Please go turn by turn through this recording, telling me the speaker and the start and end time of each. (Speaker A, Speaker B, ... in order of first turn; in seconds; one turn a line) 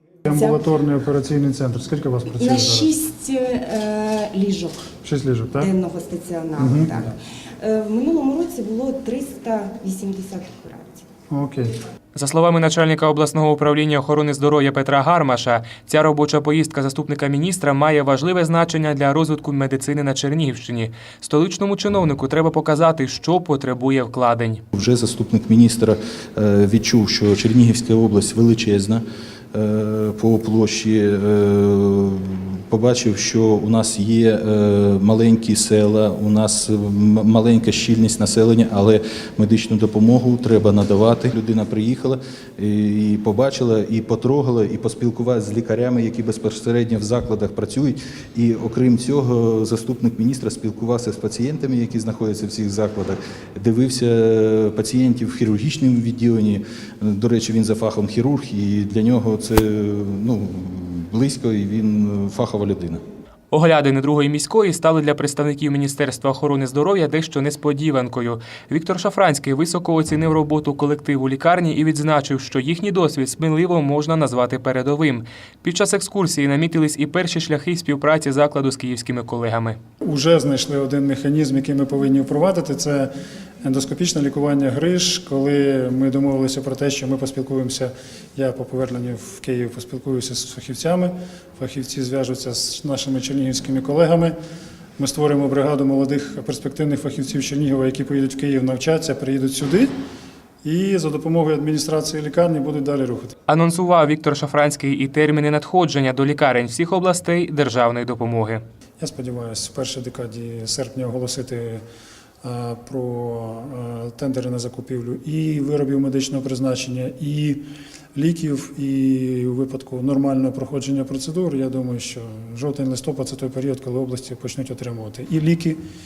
Speaker A: 0.2-2.9
Speaker B: 2.4-4.8
Speaker A: 5.0-5.7
Speaker B: 5.6-7.1
Speaker A: 6.6-7.0
Speaker B: 7.6-11.0
Speaker A: 11.3-11.8
Speaker C: 12.1-24.6
Speaker D: 24.7-63.0
Speaker C: 63.5-79.8
Speaker A: 80.0-83.1
Speaker A: 83.6-94.3
Speaker A: 95.0-99.9
Speaker A: 100.6-103.3
Speaker C: 103.5-108.6
Speaker A: 109.0-111.8
Speaker A: 112.4-117.6
Speaker A: 118.1-125.8